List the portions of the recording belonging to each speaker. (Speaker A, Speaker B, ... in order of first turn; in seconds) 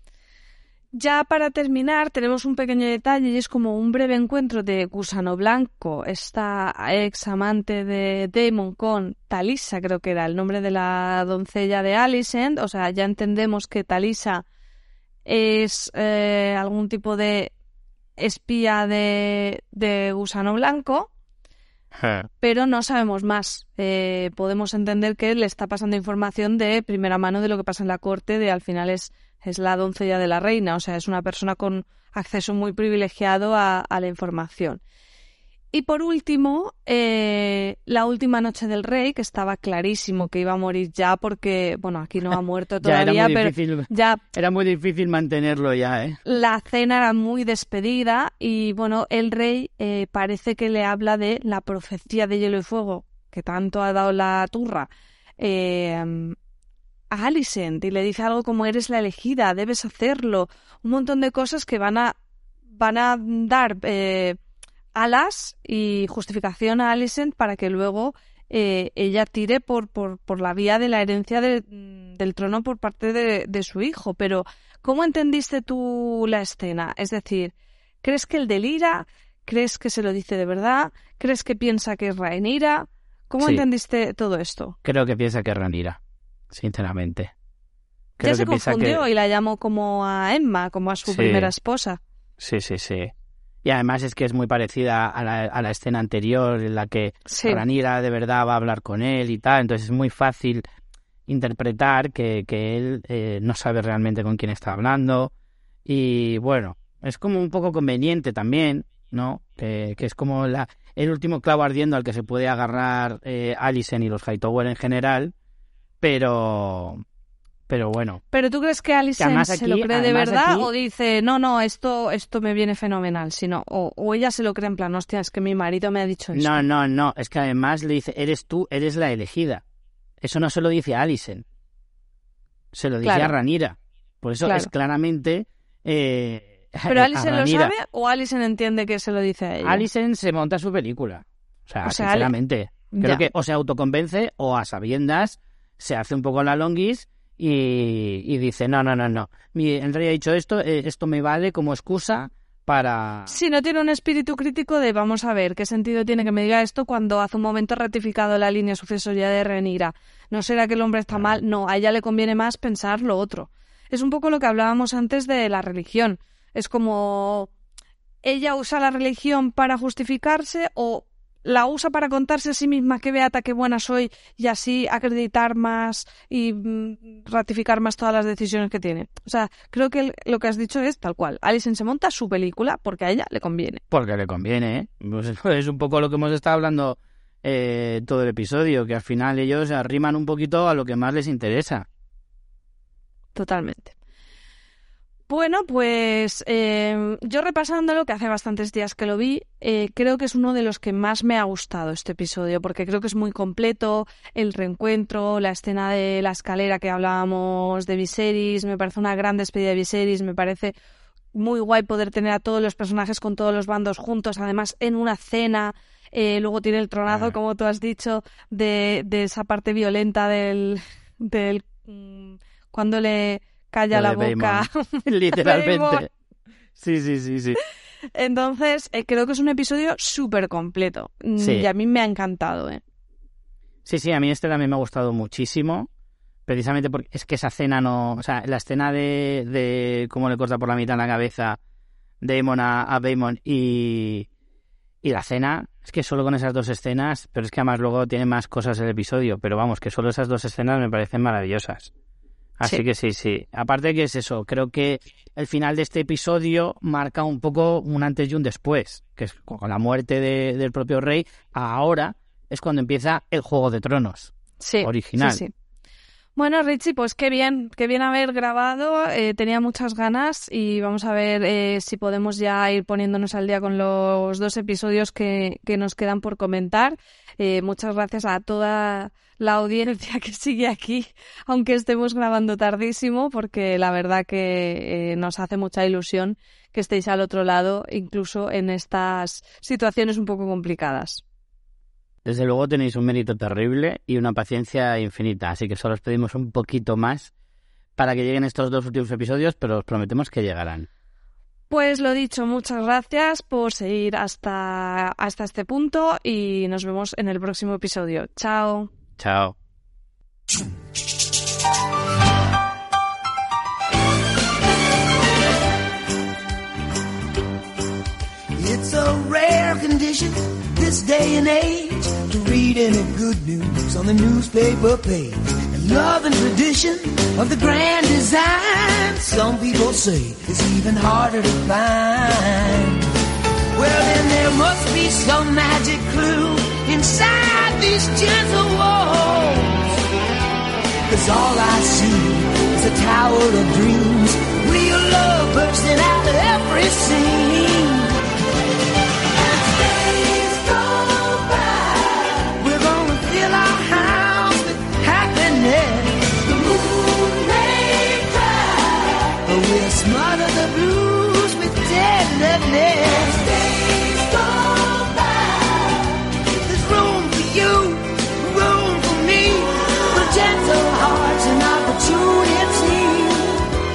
Speaker A: 0.9-14.4, 15.2-17.5, 18.2-21.1, 22.4-34.8, 35.7-44.2, 46.2-56.4, 57.1-62.1, 62.7-64.4, 65.0-84.8, 88.2-92.0, 97.2-97.6, 118.3-126.6, 133.0-133.3, 134.4-134.7, 136.9-139.8, 141.8-142.3, 142.9-143.3, 153.3-167.5, 168.2-183.8, 193.3-193.9, 195.3-210.7, 211.3-226.1, 228.1-232.8, 264.6-265.5, 266.4-291.2, 301.7-308.9
Speaker B: 21.9-22.3, 42.8-46.2, 84.8-86.0, 86.5-87.3, 88.2-89.0, 91.1-91.5, 92.4-93.1, 93.6-100.6, 101.3-105.3, 105.8-115.3, 116.0-117.0, 117.7-118.2, 119.2-120.7, 126.3-129.6, 130.2-131.4, 132.7-137.7, 139.6-153.3, 183.9-191.9, 217.1-217.3, 223.9-226.1, 226.8-227.6, 231.4-231.7, 233.8-235.9, 236.5-241.6, 242.2-244.3, 245.0-251.9, 252.6-265.4, 292.2-297.3, 298.0-300.9, 309.2-309.5
Speaker C: 318.6-333.1, 333.7-340.0, 341.1-348.1, 349.5-373.7